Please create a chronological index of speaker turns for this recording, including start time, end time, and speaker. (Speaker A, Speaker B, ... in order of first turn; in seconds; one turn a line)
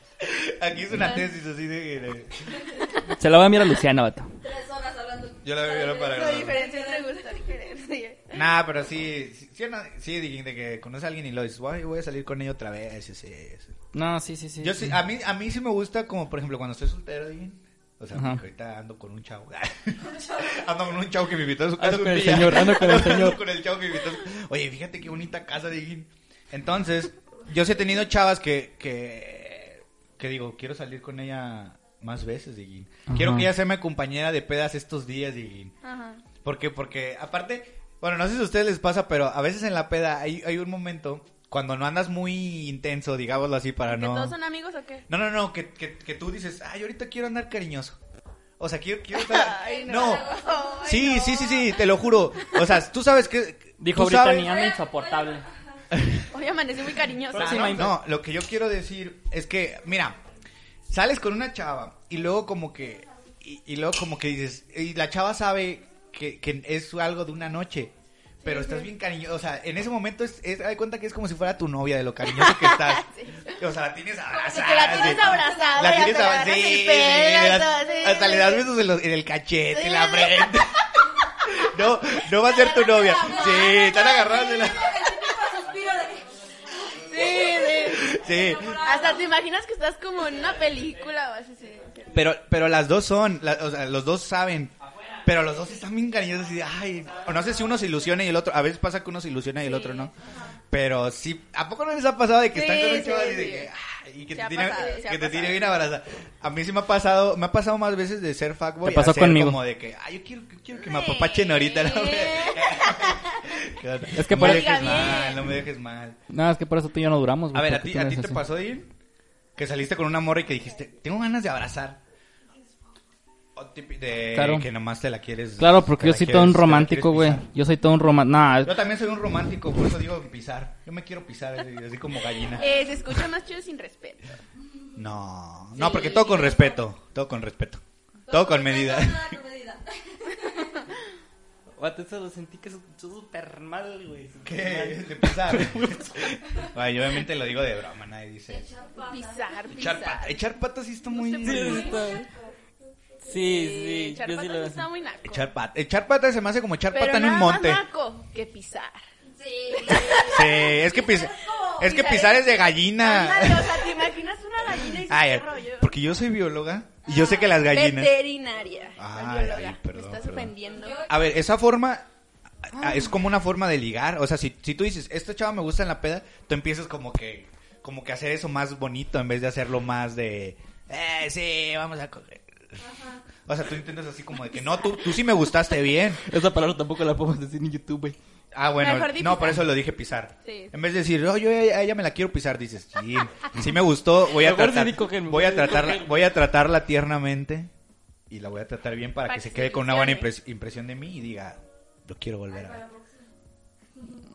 Speaker A: 0.2-2.7
Speaker B: 3.1-4.3
Speaker C: 4.4-7.4
Speaker A: 5.4-6.6
Speaker D: 6.0-8.4
Speaker A: 8.3-13.7
Speaker B: 13.9-15.0
Speaker A: 14.6-35.7
Speaker B: 18.1-18.4
Speaker B: 21.8-23.4
Speaker B: 33.1-33.5
Speaker D: 35.8-36.2
Speaker A: 36.4-44.4
Speaker D: 43.9-45.0
Speaker A: 45.1-48.0
Speaker A: 48.6-50.3
Speaker D: 49.1-51.8
Speaker C: 49.5-51.2
Speaker A: 50.8-54.6
Speaker B: 53.8-55.5
Speaker C: 54.4-55.8
Speaker A: 55.9-56.3
Speaker D: 56.3-57.8
Speaker A: 57.3-60.2
Speaker B: 57.3-58.0
Speaker A: 60.9-67.9
Speaker D: 68.4-68.9
Speaker A: 68.4-80.8
Speaker D: 72.3-73.5
Speaker D: 74.3-78.7
Speaker C: 75.3-76.0
Speaker D: 79.7-80.7
Speaker A: 81.4-85.2
Speaker D: 82.3-84.0
Speaker C: 83.2-89.3
Speaker D: 86.9-88.2
Speaker A: 87.7-88.8
Speaker D: 88.8-92.1
Speaker A: 92.1-100.1
Speaker B: 94.9-95.2
Speaker D: 99.6-100.1
Speaker A: 100.7-116.2
Speaker D: 102.5-103.7
Speaker D: 104.3-105.7
Speaker B: 108.8-109.6
Speaker D: 110.8-113.4
Speaker B: 114.1-115.2
Speaker D: 114.3-115.6
Speaker B: 116.3-118.4
Speaker A: 117.5-118.9
Speaker A: 119.6-122.0
Speaker A: 123.6-127.5
Speaker B: 124.3-124.7
Speaker B: 125.6-128.8
Speaker A: 128.6-132.7
Speaker D: 132.6-134.2
Speaker A: 135.0-139.4
Speaker C: 135.8-136.8
Speaker C: 138.3-140.9
Speaker B: 141.8-146.4
Speaker A: 144.4-148.7
Speaker C: 148.5-149.7
Speaker D: 149.1-150.4
Speaker A: 149.7-152.0
Speaker D: 151.2-152.1
Speaker B: 151.4-152.3
Speaker C: 151.5-152.6
Speaker B: 153.2-154.8
Speaker D: 153.3-155.5
Speaker A: 155.3-157.8
Speaker D: 156.9-159.0
Speaker C: 159.3-162.1
Speaker D: 159.7-160.7
Speaker A: 159.9-164.0
Speaker D: 161.7-165.9
Speaker A: 164.8-168.1
Speaker D: 167.1-171.0
Speaker A: 169.0-170.5
Speaker C: 170.7-171.2
Speaker A: 171.1-172.1
Speaker A: 172.6-182.8
Speaker C: 182.8-183.2
Speaker A: 183.5-186.2
Speaker B: 186.2-188.2
Speaker A: 188.5-197.7
Speaker D: 188.8-189.6
Speaker D: 190.4-190.7
Speaker B: 194.3-196.1
Speaker A: 198.3-202.8
Speaker D: 199.3-200.3
Speaker C: 202.5-203.3
Speaker C: 204.0-204.2